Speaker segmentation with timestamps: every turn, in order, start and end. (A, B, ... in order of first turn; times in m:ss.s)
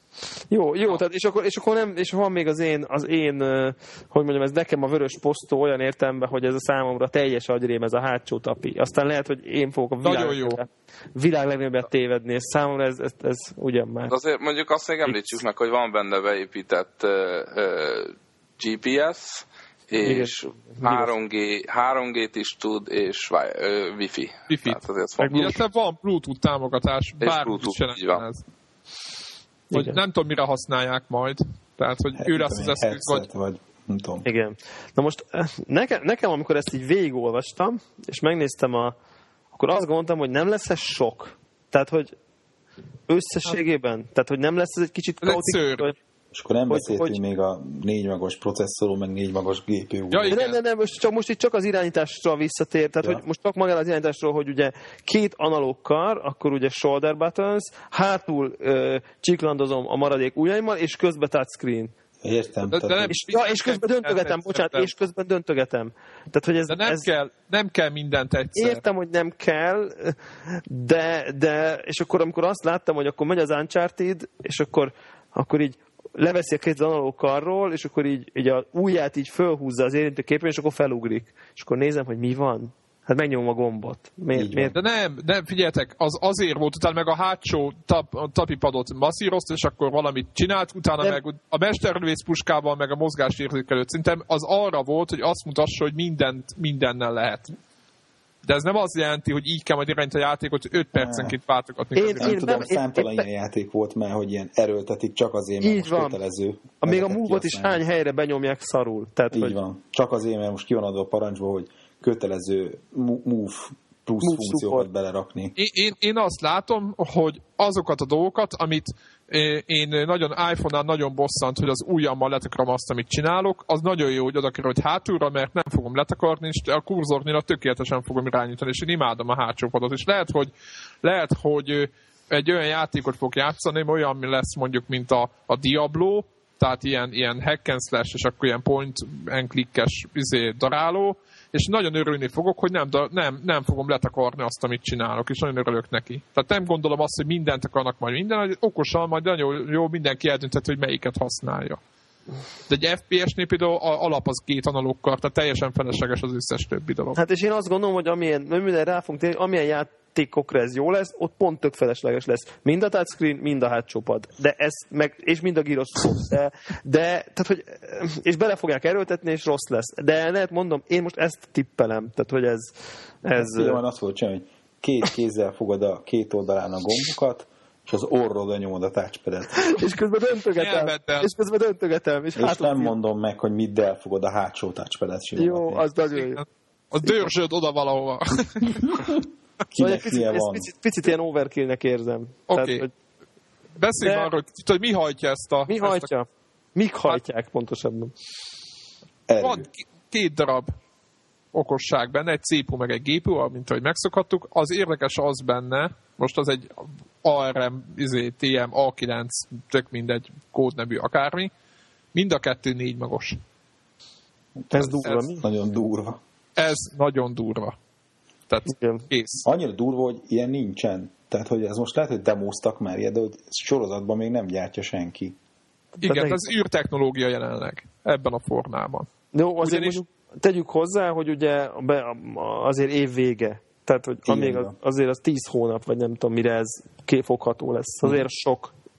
0:00.5-0:14.1 A
0:10.0-0:10.6 B
0:14.1-0:25.4 C
0:15.1-0:15.3 A
0:20.0-0:21.1 A
0:24.5-0:28.4 B
0:25.2-0:25.6 A
0:27.2-0:28.2 C
0:29.7-0:30.0 A
0:29.7-0:33.2 B
0:32.2-0:34.2 D
0:34.2-0:38.9 A
0:39.5-0:42.2 A
0:43.1-0:46.0 A
0:45.2-0:45.9 B
0:46.3-0:50.4 D
0:46.7-0:47.2 A
0:50.1-0:50.6 B
0:50.3-1:01.9 A
1:02.2-1:03.2 D
1:02.6-1:04.9 B
1:03.1-1:07.1 A
1:06.7-1:08.8 B
1:08.6-1:24.7 A
1:24.3-1:24.8 D
1:24.7-1:37.5 B
1:38.4-1:42.6 B
1:40.9-1:41.4 D
1:42.0-1:43.2 A
1:42.2-1:47.8 D
1:45.6-1:46.2 A
1:46.8-1:49.6 A
1:49.3-1:55.5 D
1:54.2-1:54.9 A
1:55.6-2:10.5 B
2:11.0-2:31.8 B
2:32.7-2:37.2 B
2:37.1-2:53.8 A
2:53.4-2:59.7 D
2:59.5-3:02.9 A
3:00.6-3:01.3 B
3:02.4-3:05.8 D
3:05.4-3:06.4 A
3:06.1-3:09.1 B
3:08.9-3:10.7 D
3:09.8-3:12.9 A
3:12.5-3:12.8 B
3:13.8-3:16.1 B
3:14.0-3:14.3 A
3:15.7-3:18.1 A
3:19.3-3:19.7 D
3:19.4-3:20.7 B
3:21.5-3:31.5 B
3:32.1-3:33.4 B
3:34.6-3:36.2 D
3:34.7-3:35.4 A
3:36.6-3:37.7 B
3:38.5-3:39.4 B
3:38.7-3:39.0 A
3:39.4-3:45.4 D
3:46.0-3:46.5 A
3:46.0-3:49.1 B
3:49.3-3:58.7 A
3:49.6-3:50.0 B
3:54.2-3:54.7 D